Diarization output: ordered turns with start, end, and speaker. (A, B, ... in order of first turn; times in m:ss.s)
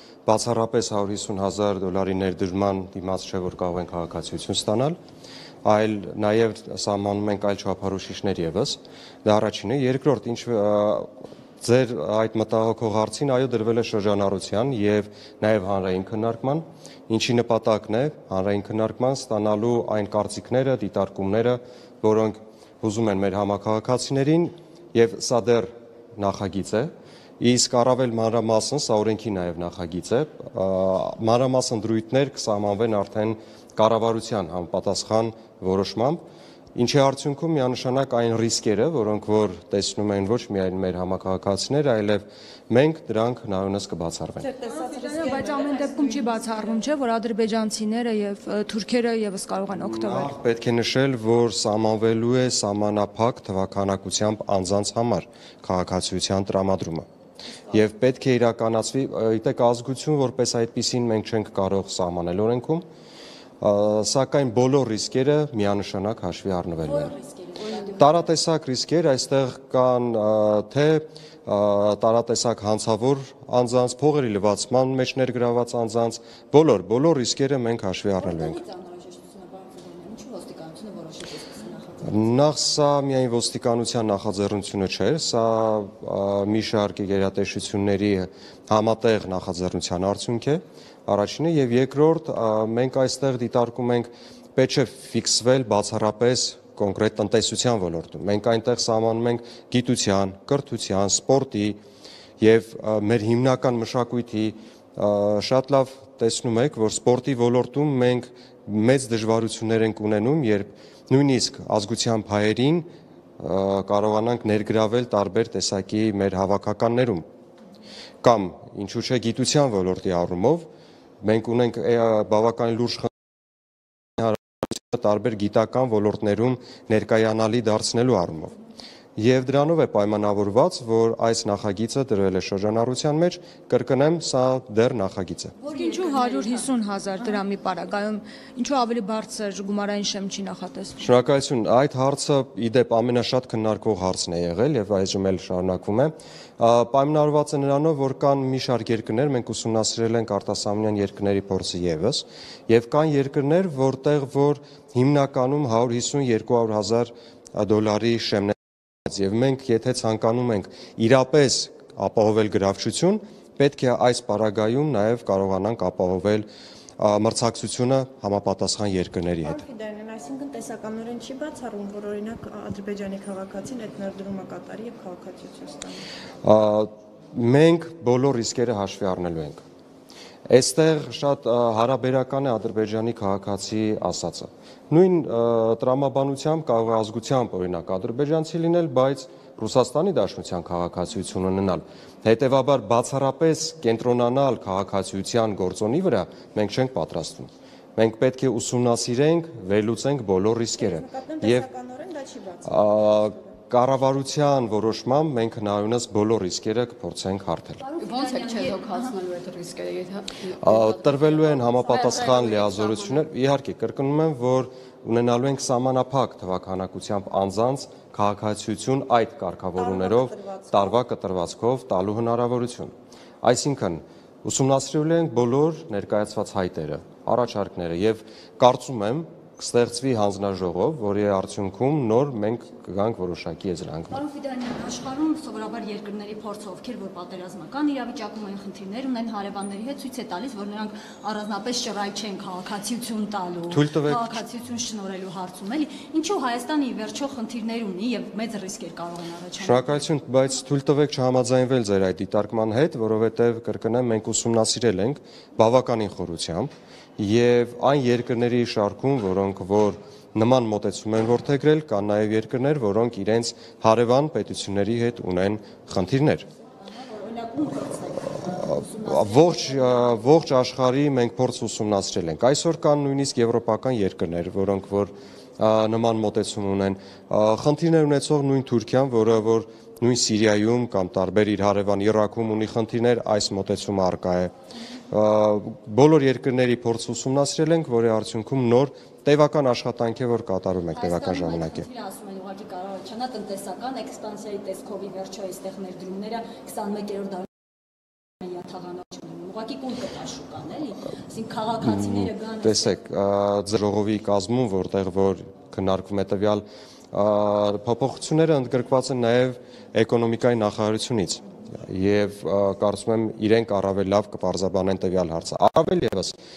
0:00.2-0:05.0 A
0:05.6-0:11.1 A
0:11.6-0:36.2 A
0:36.7-0:44.5 A
0:44.4-0:46.8 B
0:44.7-0:50.3 C
0:49.8-0:57.0 A
0:57.7-1:02.8 A
1:03.6-1:07.2 A
1:06.8-1:08.2 D
1:08.0-1:18.6 A
1:18.2-1:22.3 D
1:22.0-1:41.8 A
1:42.4-1:52.9 A
1:53.4-1:57.2 A
1:58.2-2:00.6 A
2:01.2-2:03.1 A
2:04.2-2:08.5 A
2:09.2-2:15.5 A
2:15.6-2:16.7 D
2:15.7-2:21.0 C
2:21.0-2:46.4 A
2:47.0-2:49.6 A
2:49.4-2:56.0 B
2:56.4-2:59.6 A
3:00.5-3:21.7 A
3:20.8-3:23.3 B
3:22.6-3:27.8 A
3:27.8-3:29.1 D
3:28.0-3:33.2 E
3:30.6-3:54.2 A
3:39.8-3:40.8 B
3:54.1-4:10.0 D
4:03.7-4:04.3 A
4:09.6-4:26.5 A
4:26.8-4:30.5 D
4:28.5-4:44.5 A
4:45.1-4:51.8 A
4:50.9-4:57.5 D
4:58.4-5:03.0 D
5:01.8-5:16.4 A